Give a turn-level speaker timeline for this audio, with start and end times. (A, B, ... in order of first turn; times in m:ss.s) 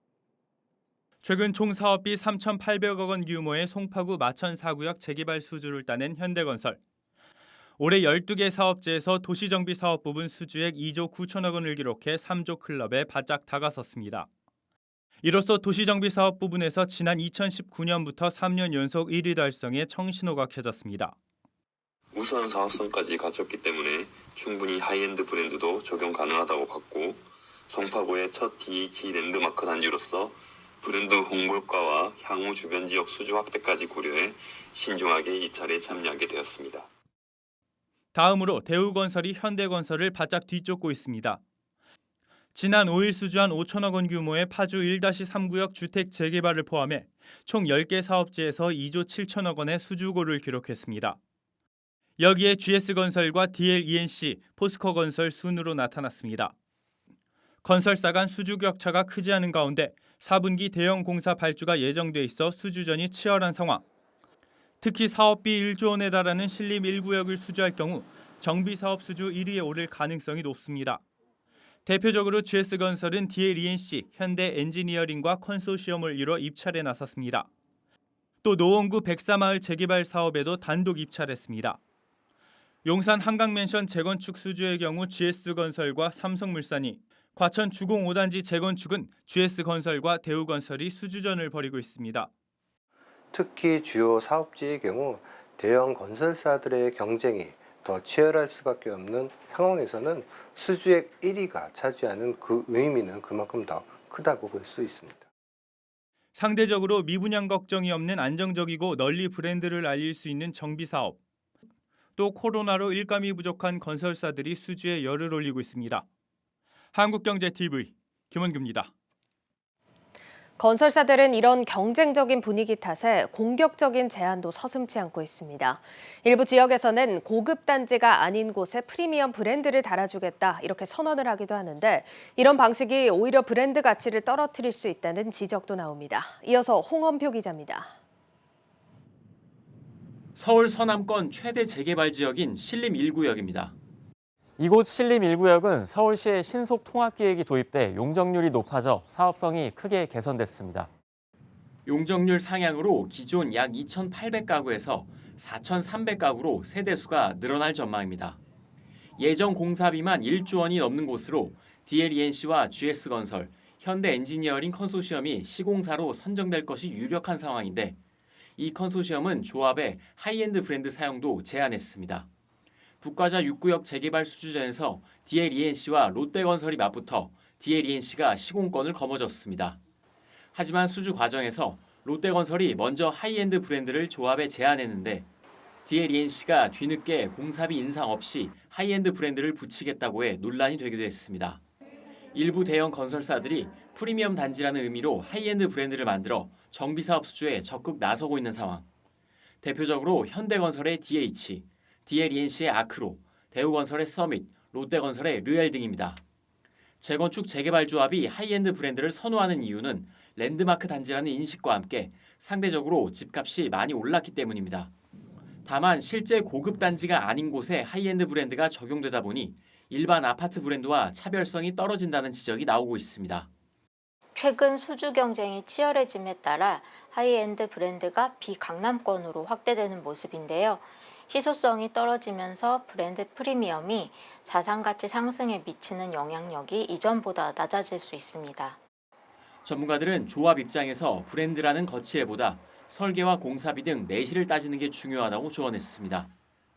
0:01.2-0:06.8 A
0:07.8-0:14.3 A
0:15.2-0:21.2 A
0:22.1-0:36.9 B
0:38.1-0:41.4 A
0:42.5-0:51.2 A
0:52.2-0:56.5 A
0:57.6-1:03.8 A
1:04.8-1:11.0 A
1:11.8-1:17.5 A
1:18.4-1:21.8 A
1:22.8-1:32.3 A
1:33.3-1:45.2 C
1:46.3-1:51.2 A
1:52.2-1:56.0 A
1:56.9-1:58.9 A
2:00.6-2:17.9 D
2:20.4-2:23.7 E
2:24.6-2:30.3 F
2:25.0-2:25.4 E
2:26.3-2:27.4 E
2:28.1-2:30.9 E
2:31.8-2:38.4 E
2:39.2-2:48.0 E
2:48.6-2:52.3 E
2:53.0-2:59.8 E
3:00.5-3:05.3 E
3:05.8-3:11.6 E
3:12.3-3:18.9 E
3:19.6-3:26.2 E
3:27.0-3:34.9 E
3:35.6-3:43.5 E
3:44.3-3:58.8 G
3:59.6-4:06.3 E